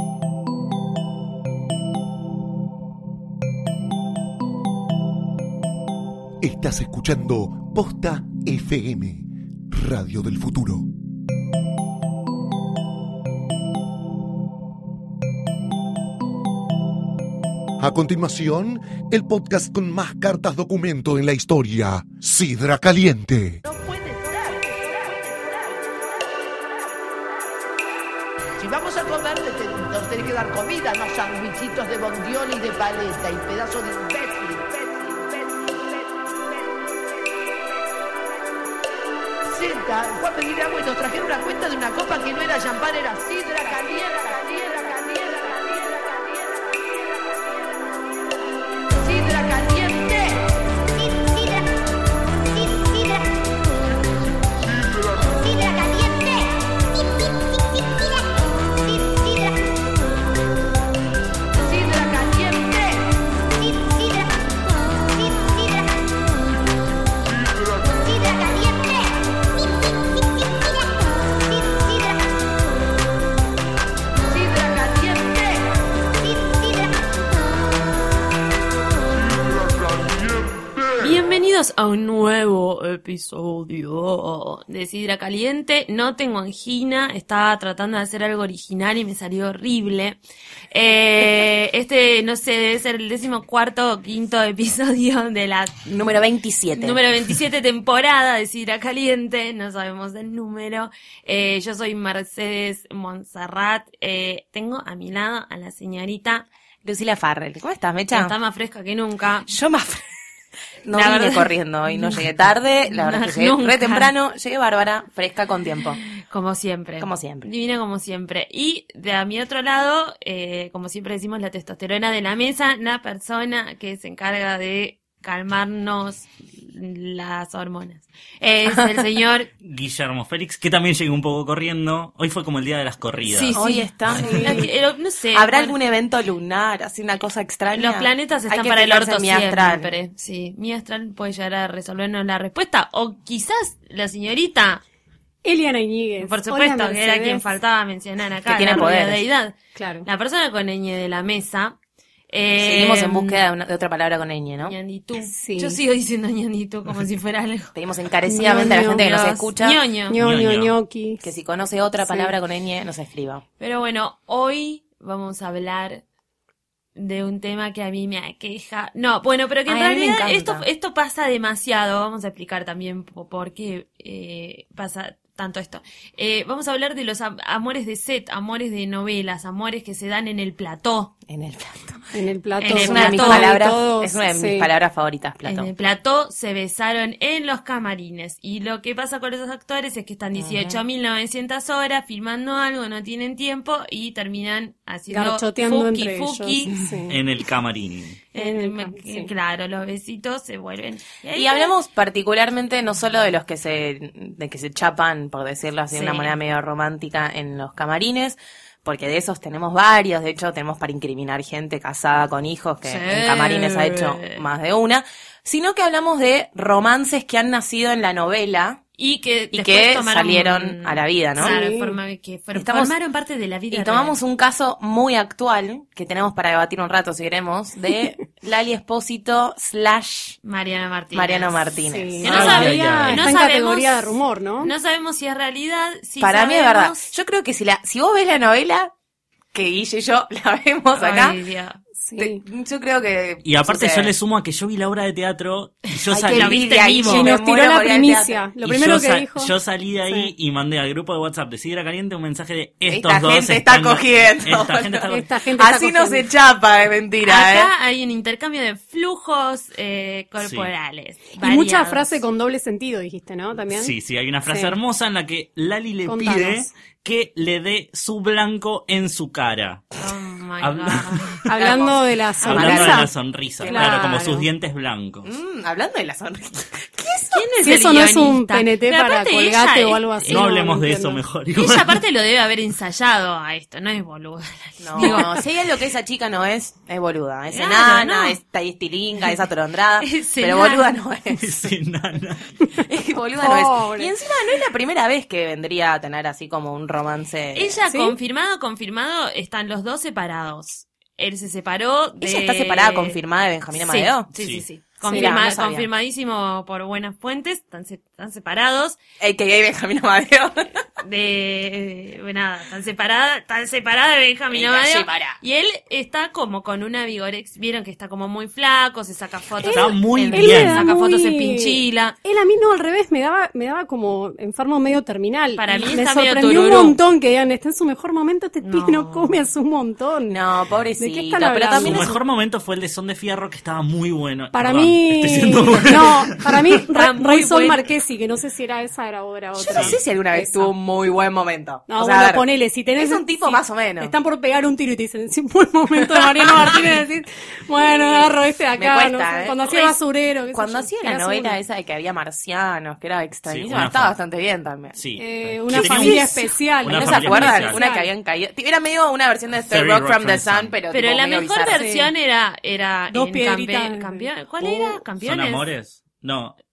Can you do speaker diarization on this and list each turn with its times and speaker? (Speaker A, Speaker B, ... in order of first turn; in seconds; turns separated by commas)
Speaker A: 6.4-10.9, Speaker A: 17.8-23.6, Speaker B: 23.6-27.1, Speaker B: 28.6-37.5, Speaker B: 39.5-47.9, Speaker B: 48.9-51.6, Speaker B: 55.2-56.4, Speaker B: 61.6-64.1, Speaker B: 67.9-68.8, Speaker B: 74.2-76.4, Speaker C: 80.9-90.2, Speaker C: 90.7-95.9, Speaker D: 95.8-97.0, Speaker C: 96.8-106.5, Speaker D: 106.8-108.3, Speaker C: 108.1-109.5, Speaker D: 109.5-110.0, Speaker D: 110.8-116.0, Speaker C: 110.9-112.2, Speaker C: 112.9-114.1, Speaker C: 116.2-129.5, Speaker D: 117.0-117.5, Speaker E: 129.6-133.5, Speaker C: 133.2-135.8, Speaker D: 133.5-134.7, Speaker F: 134.2-134.6, Speaker D: 135.3-139.9, Speaker C: 137.7-144.8, Speaker F: 145.4-147.4, Speaker C: 146.2-151.8, Speaker D: 148.4-149.2, Speaker F: 149.7-150.1, Speaker C: 152.3-153.4, Speaker D: 152.6-154.8, Speaker C: 154.6-157.7, Speaker F: 155.3-155.8, Speaker D: 157.7-159.8, Speaker F: 158.2-159.1, Speaker C: 158.8-160.2, Speaker F: 160.1-161.2, Speaker E: 160.2-160.8, Speaker D: 161.2-163.4, Speaker F: 162.0-162.3, Speaker C: 163.6-166.0, Speaker C: 166.9-181.1, Speaker D: 169.7-170.7, Speaker D: 181.3-182.1, Speaker F: 182.1-184.7, Speaker C: 182.6-183.6, Speaker D: 182.7-185.7, Speaker C: 185.4-196.8, Speaker D: 190.3-190.8, Speaker F: 195.1-197.2, Speaker E: 197.1-198.2, Speaker C: 198.3-201.7, Speaker F: 198.3-199.3, Speaker D: 201.3-218.8, Speaker C: 205.9-206.3, Speaker C: 212.8-214.4, Speaker C: 219.0-224.2, Speaker D: 219.5-221.6, Speaker F: 221.4-222.0, Speaker D: 222.5-222.9, Speaker D: 223.7-230.4, Speaker C: 230.4-231.6, Speaker D: 231.1-232.4, Speaker F: 231.9-234.7, Speaker C: 232.2-237.1, Speaker E: 232.3-233.3, Speaker D: 236.2-238.9, Speaker D: 239.5-241.4, Speaker C: 240.9-241.8, Speaker F: 242.0-242.4, Speaker D: 242.2-244.1, Speaker E: 243.4-246.6, Speaker D: 246.1-248.4, Speaker C: 246.2-247.3, Speaker F: 247.0-250.3, Speaker E: 248.6-255.3, Speaker D: 252.8-257.7, Speaker F: 255.1-256.3, Speaker C: 257.2-262.2, Speaker E: 260.4-260.7, Speaker F: 261.4-263.9, Speaker E: 263.7-269.9, Speaker F: 264.4-264.7, Speaker F: 266.1-266.7, Speaker C: 270.0-271.4, Speaker E: 270.6-271.5, Speaker F: 271.5-274.5, Speaker D: 271.6-273.0, Speaker E: 272.4-275.3, Speaker D: 273.7-274.0, Speaker D: 275.2-277.5, Speaker C: 277.3-280.4, Speaker F: 277.6-281.2, Speaker E: 280.3-282.0, Speaker C: 281.6-285.4, Speaker D: 284.8-291.7, Speaker C: 287.5-288.4, Speaker C: 290.0-290.9, Speaker E: 291.4-292.6, Speaker D: 292.8-297.8, Speaker F: 293.4-294.1, Speaker C: 297.5-303.2, Speaker F: 297.9-298.1, Speaker D: 302.2-304.3, Speaker C: 303.8-309.0, Speaker E: 304.4-304.6, Speaker F: 305.0-305.3, Speaker D: 305.1-305.9, Speaker D: 309.2-310.7, Speaker C: 311.0-322.1, Speaker D: 314.5-315.4, Speaker F: 319.6-330.4, Speaker E: 319.6-320.9, Speaker C: 325.6-327.0, Speaker C: 328.6-329.4, Speaker D: 330.3-332.1, Speaker F: 331.0-332.2, Speaker E: 331.8-336.7, Speaker F: 334.5-340.7, Speaker C: 336.9-337.9, Speaker D: 339.6-344.1, Speaker E: 339.7-340.0, Speaker F: 341.9-351.6, Speaker D: 346.1-346.8, Speaker D: 348.8-349.9, Speaker D: 350.5-355.0, Speaker E: 353.5-354.2, Speaker E: 354.9-357.8, Speaker F: 355.1-358.1, Speaker D: 355.7-361.9, Speaker E: 359.7-360.7, Speaker C: 360.9-365.7, Speaker F: 361.7-362.1, Speaker F: 363.1-364.3, Speaker E: 364.7-366.6